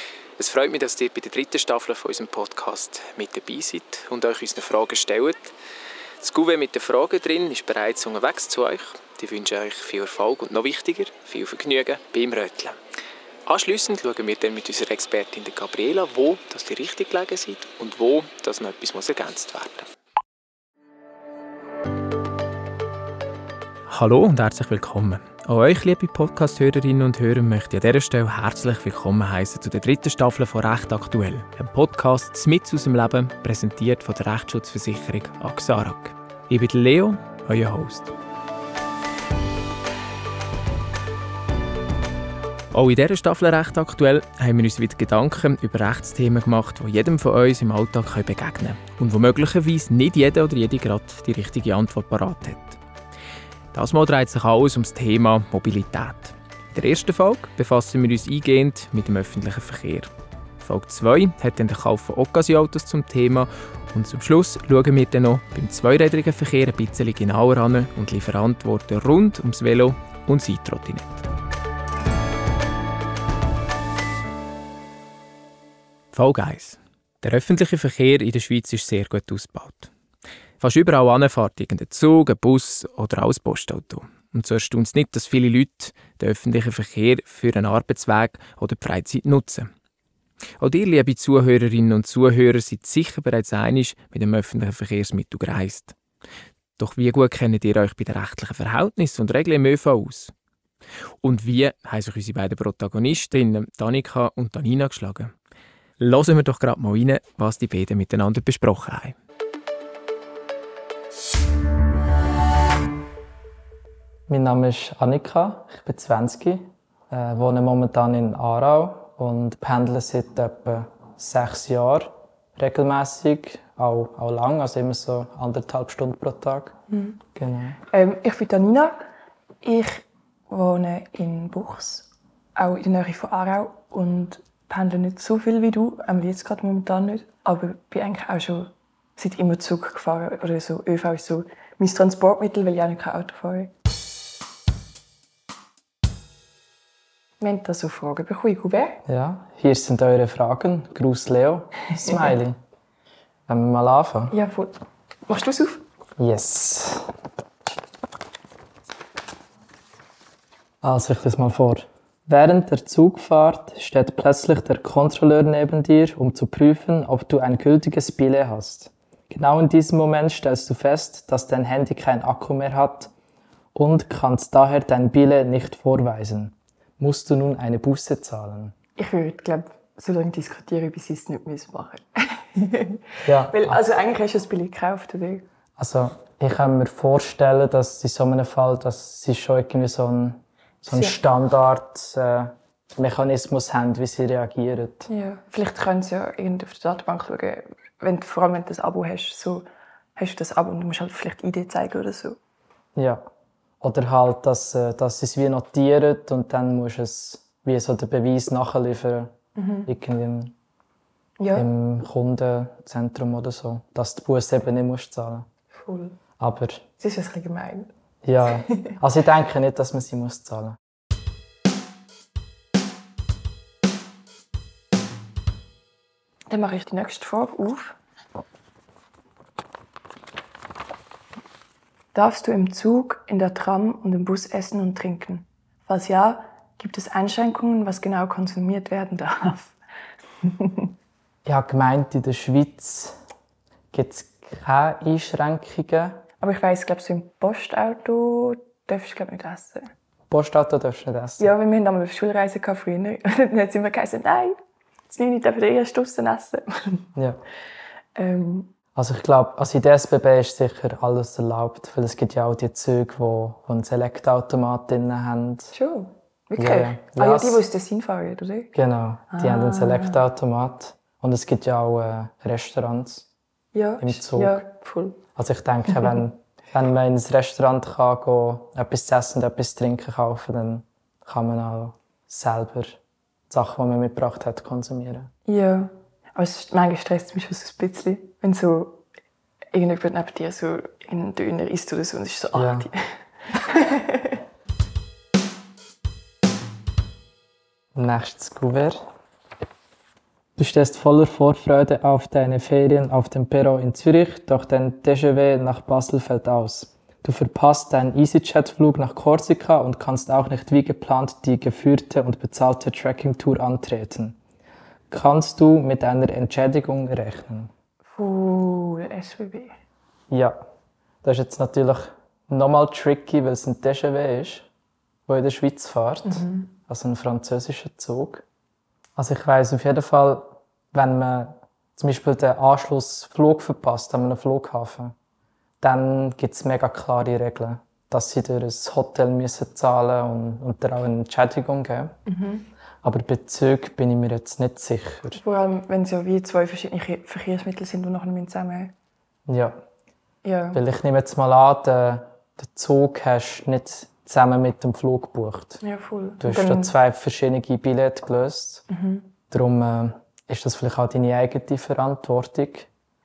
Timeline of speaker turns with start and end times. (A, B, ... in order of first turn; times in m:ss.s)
0:00.4-0:05.5 A
0:06.2-0:12.8 A
0:13.4-0:19.9 A
0:23.9-0:38.1 A
0:42.7-0:52.8 A
0:53.7-1:11.2 A
1:16.1-1:19.9 A
1:20.6-1:29.7 A
1:30.6-1:36.0 A
1:36.8-1:40.3 A
1:41.2-1:45.3 A
1:46.0-1:49.2 A
1:54.3-2:06.7 B
2:06.9-2:07.2 C
2:07.4-2:07.8 B
2:07.9-2:09.0 C
2:09.6-2:23.7 C
2:27.4-2:29.0 C
2:29.1-2:32.5 B
2:33.5-2:34.3 B
2:34.3-2:34.7 C
2:35.3-2:35.8 C
2:36.2-2:37.1 B
2:40.8-2:53.1 B
2:53.8-2:58.8 B
2:59.0-3:05.4 C
3:03.2-3:03.8 B
3:05.8-3:15.1 B
3:10.9-3:11.2 C
3:15.1-3:22.4 C
3:23.0-3:23.2 B
3:23.8-3:29.3 B
3:29.6-3:29.9 C
3:29.8-3:30.5 B
3:31.4-3:31.7 C
3:31.5-3:35.5 B
3:35.8-3:36.2 C
3:36.4-3:36.8 B
3:37.0-3:37.9 C
3:38.2-3:40.8 B
3:46.5-3:48.0 C
3:52.1-3:59.8 C
4:00.6-4:00.9 C
4:01.4-4:03.2 B
4:03.9-4:06.2 B
4:06.4-4:09.9 C
4:10.3-4:11.5 B
4:11.4-4:14.5 C
4:15.1-4:17.1 C
4:17.2-4:17.4 B
4:18.2-4:18.8 C
4:18.9-4:25.7 B
4:25.7-4:28.7 C
4:26.6-4:27.6 B
4:28.7-4:33.3 B
4:29.3-4:30.2 C
4:33.7-4:35.2 C
4:34.0-4:34.6 B
4:35.4-4:45.3 B
4:45.5-4:49.0 C
4:49.7-4:53.0 C
4:52.6-4:52.9 B
4:53.5-4:54.4 C
4:57.9-4:59.0 B
5:00.6-5:14.4 B
5:15.1-5:17.7 B
5:18.1-5:19.7 C
5:20.3-5:20.6 B
5:21.2-5:24.7 B
5:25.3-5:28.4 B
5:26.3-5:26.7 C
5:29.2-5:35.1 B
5:35.8-5:42.2 B
5:42.3-5:42.7 C
5:43.0-5:45.4 B
5:45.4-5:48.9 C
5:49.5-5:49.8 B
5:50.4-5:50.8 C
5:50.7-5:55.8 B
5:55.8-5:56.9 C
5:56.4-5:58.8 B
5:58.9-5:59.3 C
5:59.5-6:02.9 B